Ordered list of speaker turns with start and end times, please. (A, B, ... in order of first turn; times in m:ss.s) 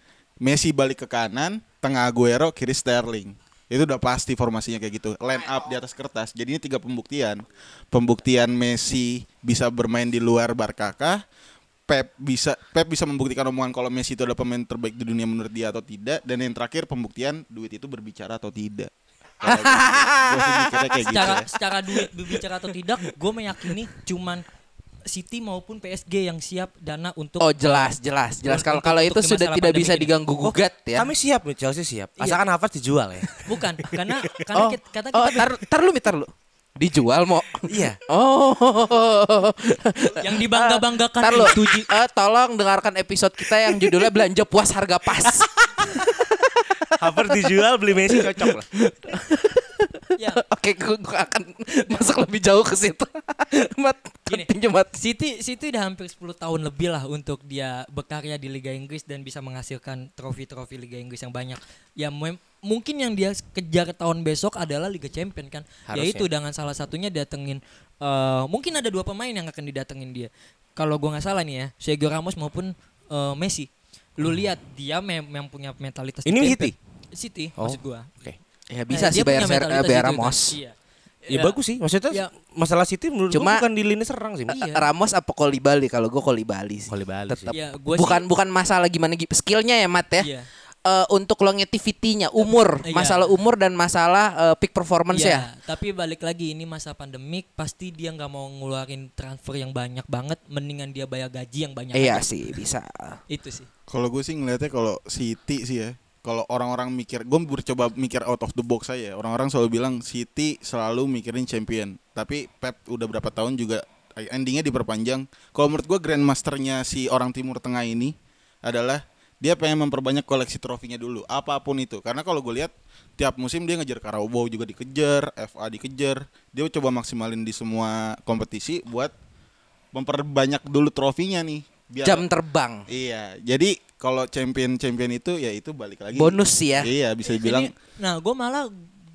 0:00.4-0:11.2 A
0:11.9-0:21.5 A
0:19.4-0:21.6 B
0:21.0-0:24.4 C
0:25.1-0:27.9 C
0:27.4-0:31.1 B
0:28.4-0:30.1 C
0:30.4-0:33.4 D
0:33.4-0:35.5 C
0:34.5-0:55.0 B
0:37.7-0:38.0 D
0:40.2-0:41.9 C
0:47.0-0:48.7 D
0:50.2-0:50.4 C
0:54.3-1:18.1 C
1:05.9-1:06.2 D
1:16.2-1:16.8 D
1:17.6-1:18.4 D
1:18.7-1:20.6 B
1:18.9-1:20.7 C
1:21.2-1:21.6 C
1:21.3-1:24.6 D
1:23.3-1:23.7 B
1:24.5-1:24.9 C
1:24.5-1:30.3 B
1:26.9-1:27.5 D
1:27.5-1:28.2 C
1:30.2-1:30.5 C
1:30.9-1:35.5 B
1:32.8-1:33.3 C
1:35.1-1:42.3 C
1:41.9-1:43.2 B
1:43.3-1:43.7 C
1:43.9-2:09.1 A
2:09.9-2:12.2 A
2:12.0-2:12.9 B
2:12.9-2:17.7 A
2:16.1-2:16.9 B
2:17.3-2:18.7 C